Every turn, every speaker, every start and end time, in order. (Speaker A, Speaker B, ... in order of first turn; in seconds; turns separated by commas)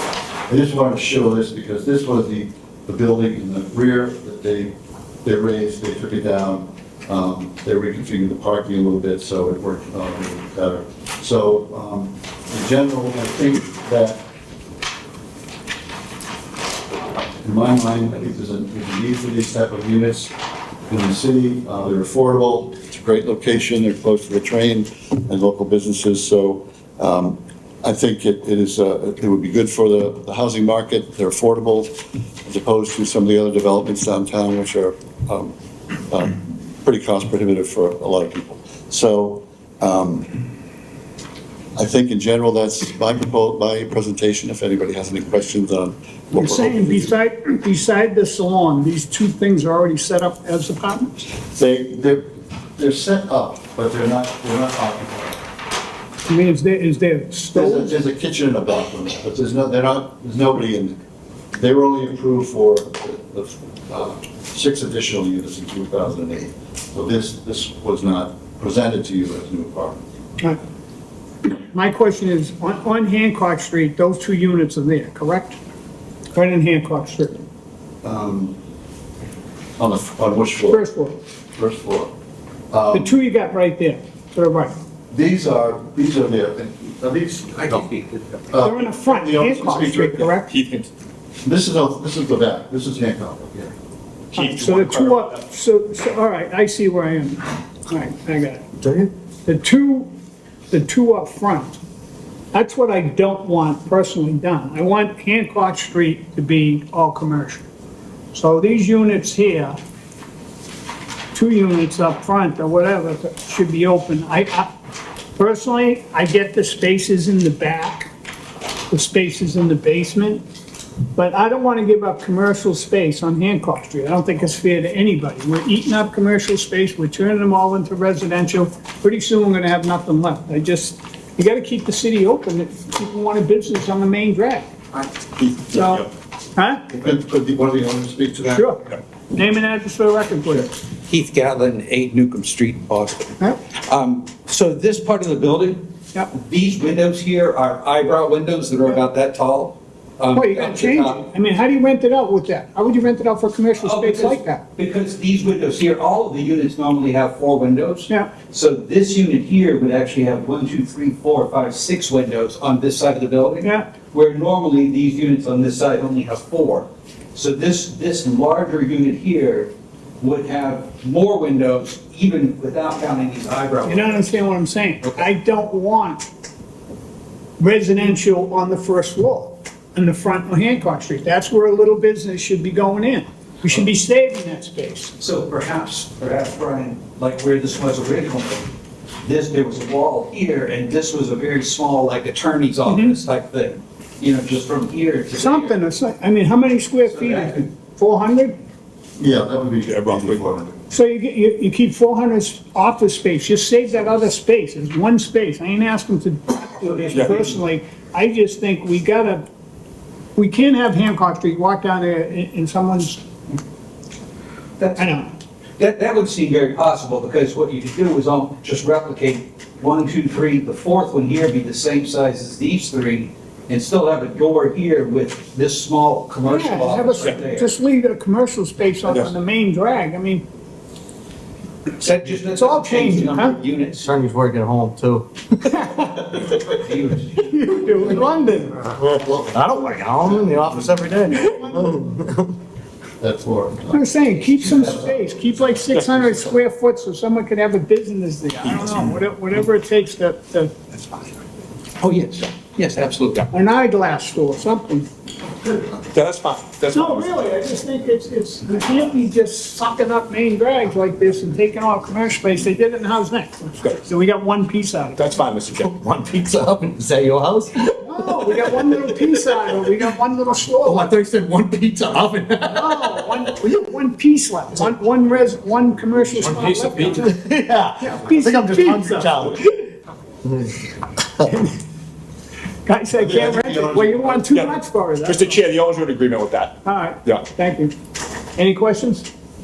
Speaker A: 0.5-14.2, Speaker A: 17.4-20.3, Speaker A: 20.9-31.9, Speaker A: 32.4-35.5, Speaker A: 36.1-40.3, Speaker A: 41.8-47.1, Speaker B: 46.3-51.2, Speaker A: 51.3-55.4, Speaker B: 56.3-57.9, Speaker A: 57.5-61.0, Speaker A: 61.5-70.0, Speaker B: 71.5-75.6, Speaker B: 76.3-77.4, Speaker A: 78.0-78.6, Speaker A: 79.8-80.8, Speaker B: 80.7-81.2, Speaker A: 81.5-82.1, Speaker A: 82.7-83.2, Speaker B: 82.9-84.7, Speaker A: 85.1-87.9, Speaker C: 87.5-88.4, Speaker A: 88.5-90.3, Speaker B: 88.6-90.5, Speaker D: 90.5-90.9, Speaker A: 91.4-93.7, Speaker B: 94.3-98.6, Speaker D: 94.3-95.4, Speaker B: 99.5-100.1, Speaker B: 100.7-101.8, Speaker B: 102.5-107.6, Speaker B: 108.3-109.8, Speaker B: 111.3-114.7, Speaker B: 115.4-118.1, Speaker B: 118.9-120.4, Speaker B: 121.1-134.7, Speaker B: 135.7-136.9, Speaker A: 136.9-138.7, Speaker B: 138.5-140.7, Speaker C: 140.9-151.3, Speaker B: 150.3-154.6, Speaker C: 153.8-174.3, Speaker B: 158.1-158.3, Speaker B: 163.6-163.9, Speaker B: 173.8-176.3, Speaker B: 177.6-185.1, Speaker C: 185.2-188.7, Speaker C: 189.2-195.7, Speaker B: 192.9-193.2, Speaker B: 195.4-198.6, Speaker C: 197.0-197.7, Speaker A: 199.2-200.7, Speaker D: 199.8-200.4, Speaker B: 200.9-209.4, Speaker C: 206.8-207.6, Speaker B: 210.3-213.2, Speaker C: 214.8-215.1, Speaker B: 215.0-215.3, Speaker C: 215.8-227.7, Speaker B: 226.4-230.4, Speaker D: 229.1-229.3, Speaker C: 232.0-234.1, Speaker B: 232.5-233.6, Speaker E: 234.0-235.3, Speaker B: 235.6-236.2, Speaker C: 236.5-237.5, Speaker B: 237.4-238.9, Speaker E: 238.9-242.5, Speaker A: 239.1-240.7, Speaker B: 241.3-242.2, Speaker A: 243.2-244.1, Speaker B: 243.9-251.2, Speaker C: 244.6-244.9, Speaker A: 244.7-245.1, Speaker D: 245.9-246.3, Speaker D: 248.7-249.1, Speaker C: 252.0-253.5, Speaker B: 253.5-255.1, Speaker D: 256.1-257.3, Speaker B: 256.9-265.3, Speaker D: 265.1-265.9, Speaker E: 265.8-268.0, Speaker B: 268.0-271.1, Speaker E: 270.8-273.3, Speaker B: 272.7-277.3, Speaker E: 276.4-279.6, Speaker B: 278.0-279.6, Speaker B: 282.9-285.6, Speaker A: 283.1-284.4, Speaker D: 284.5-287.5, Speaker B: 286.8-287.9, Speaker B: 288.6-289.3